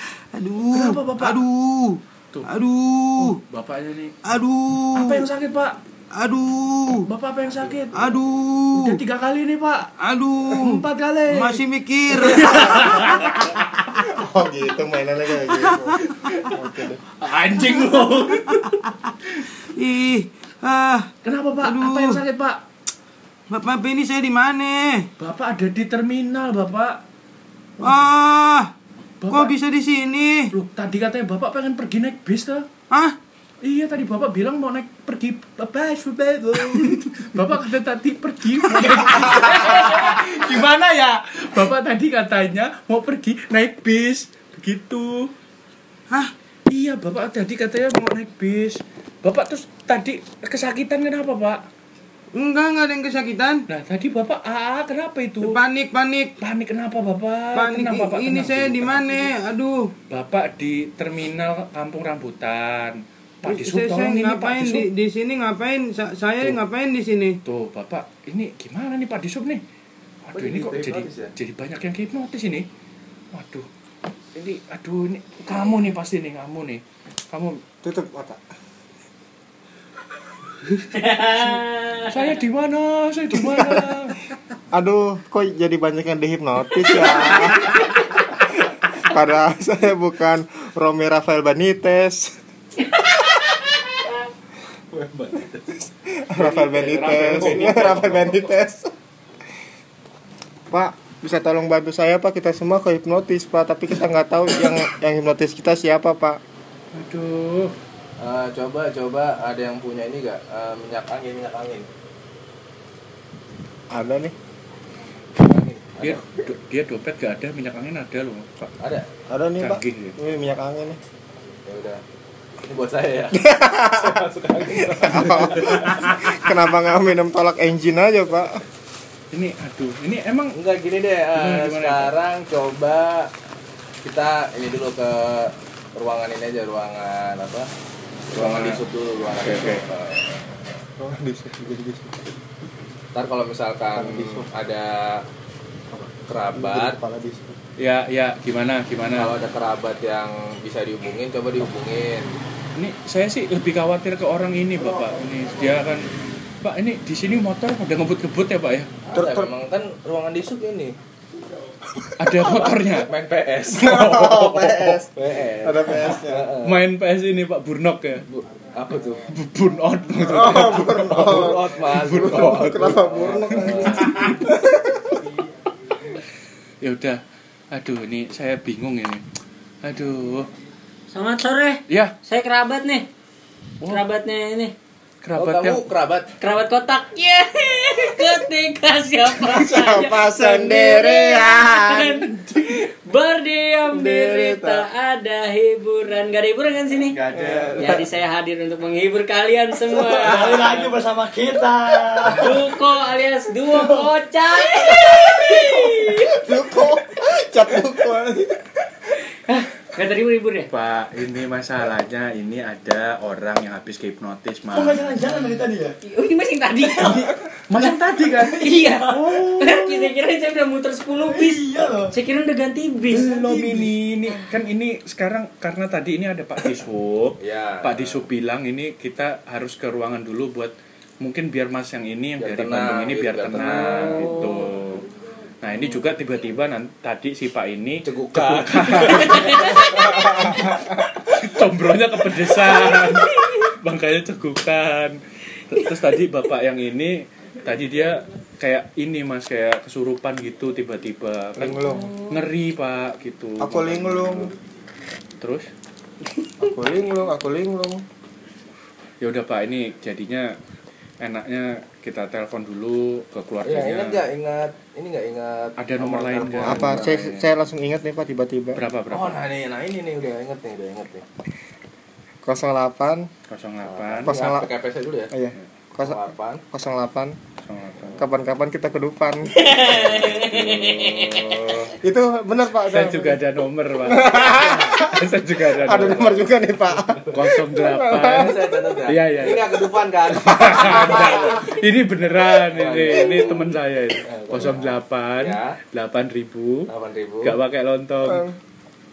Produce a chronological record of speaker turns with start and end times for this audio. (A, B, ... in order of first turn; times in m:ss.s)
0:00.3-0:03.4 A
0:00.7-0:01.4 B
0:03.2-0:04.2 B
0:04.2-0:05.2 A
0:04.9-0:05.8 B
0:06.1-0:07.0 A
0:07.0-0:07.9 B
0:07.9-0:09.0 A
0:08.7-0:09.9 B
0:10.0-0:13.0 A
0:10.5-0:11.6 B
0:12.2-0:13.6 B
0:14.1-0:17.0 C
0:16.0-0:16.5 B
0:17.2-0:18.9 B
0:17.8-0:18.2 A
0:19.8-0:21.1 A
0:21.2-0:22.6 B
0:21.6-0:22.2 A
0:23.5-0:25.1 A
0:25.2-0:27.0 B
0:27.8-0:28.1 B
0:27.8-0:28.7 A
0:29.2-0:29.5 B
0:29.3-0:30.5 A
0:30.5-0:32.7 B
0:32.9-0:33.2 A
0:33.6-0:45.3 B
0:46.7-0:51.6 B
0:52.3-0:53.6 A
0:53.7-0:55.6 B
0:55.4-0:56.3 A
0:56.4-0:59.3 B
0:57.5-0:59.9 A
1:00.1-1:04.9 B
1:03.4-1:07.4 A
1:07.4-1:09.6 B
1:10.2-1:12.7 B
1:10.3-1:11.3 D
1:13.3-1:13.7 B
1:14.3-1:17.6 B
1:17.8-1:18.4 C
1:20.9-1:22.2 E
1:21.1-1:21.5 B
1:22.1-1:24.2 B
1:23.3-1:23.8 C
1:24.7-1:28.1 C
1:28.9-1:32.4 C
1:33.0-1:33.7 E
1:34.9-1:35.8 D
1:36.2-1:38.9 C
1:36.4-1:38.5 B
1:37.4-1:38.1 D
1:40.7-1:46.4 C
1:46.9-1:47.7 B
1:48.2-1:51.9 D
1:53.9-1:54.3 C
1:55.4-1:56.2 D
1:56.0-1:58.7 B
1:58.8-1:59.1 D
1:59.3-2:01.0 C
1:59.6-2:00.2 B
2:01.6-2:02.0 D
2:02.6-2:06.0 D
2:03.3-2:04.2 C
2:04.9-2:08.6 C
2:05.5-2:06.3 B
2:09.3-2:10.6 B
2:10.5-2:13.3 D
2:11.3-2:12.1 B
2:14.0-2:17.7 D
2:18.3-2:20.3 D
2:18.3-2:18.8 B
2:19.4-2:19.8 B
2:21.0-2:22.2 C
2:23.1-2:25.2 D
2:23.9-2:24.5 C
2:26.3-2:27.0 D
2:26.5-2:27.6 C
2:27.8-2:29.3 B
2:29.1-2:32.4 D
2:32.8-2:36.0 B
2:36.6-2:38.9 B
2:39.1-2:39.5 C
2:39.1-2:41.0 D
2:42.2-2:43.1 B
2:42.4-2:44.0 D
2:43.7-2:45.0 B
2:43.7-2:46.5 C
2:45.1-2:46.8 D
2:46.6-2:48.2 B
2:48.3-2:49.2 D
2:49.3-2:51.3 B
2:50.2-2:55.2 C
2:50.3-2:54.2 D
2:51.9-2:54.5 B
2:56.8-2:57.2 B
2:57.7-2:59.2 B
2:59.8-3:00.5 B
3:01.1-3:03.1 E
3:01.9-3:02.1 B
3:03.9-3:04.7 E
3:05.2-3:05.8 B
3:05.4-3:06.3 D
3:06.4-3:17.2 E
3:09.3-3:12.3 C
3:13.9-3:14.8 C
3:17.1-3:18.0 D
3:17.3-3:18.0 C
3:17.8-3:20.9 E
3:19.9-3:22.7 F
3:22.2-3:26.4 E
3:23.7-3:24.1 F
3:24.8-3:28.6 C
3:29.4-3:30.7 E
3:30.7-3:35.4 B
3:34.7-3:36.0 F
3:36.0-3:37.9 E
3:36.8-3:37.2 F
3:37.1-3:38.8 B
3:38.3-3:40.1 F
3:38.6-3:43.3 E
3:41.1-3:42.1 F
3:43.1-3:55.0 B
3:43.2-3:43.9 F
3:47.4-3:48.2 D
3:52.4-3:54.8 D
3:55.6-4:14.5 B
3:58.0-4:00.6 D
3:59.4-4:00.1 E
4:02.6-4:03.6 E
4:11.6-4:12.1 C
4:11.9-4:12.4 E
4:13.6-4:14.5 C
4:15.4-4:15.7 B
4:16.6-4:18.0 C
4:19.2-4:20.5 B
4:21.2-4:24.3 B
4:23.6-4:27.1 D
4:25.8-4:27.4 B
4:26.6-4:28.8 C
4:28.7-4:29.5 B
4:29.1-4:31.2 D
4:32.4-4:33.3 C
4:33.5-4:34.3 B
4:33.8-4:35.3 D
4:34.2-4:34.7 C
4:35.3-4:36.2 C
4:36.0-4:36.6 D
4:36.7-4:37.4 C
4:37.6-4:38.2 B
4:38.1-4:39.8 C
4:39.5-4:41.6 E
4:39.9-4:41.9 B
4:42.0-4:43.4 C
4:42.8-4:46.4 B
4:44.0-4:48.6 C
4:45.9-4:46.4 D
4:47.1-4:47.4 D
4:47.3-4:56.9 B
4:48.1-4:51.6 D
4:52.6-4:53.7 D
4:54.2-4:55.8 D
4:56.9-4:57.6 D
4:57.4-4:58.5 B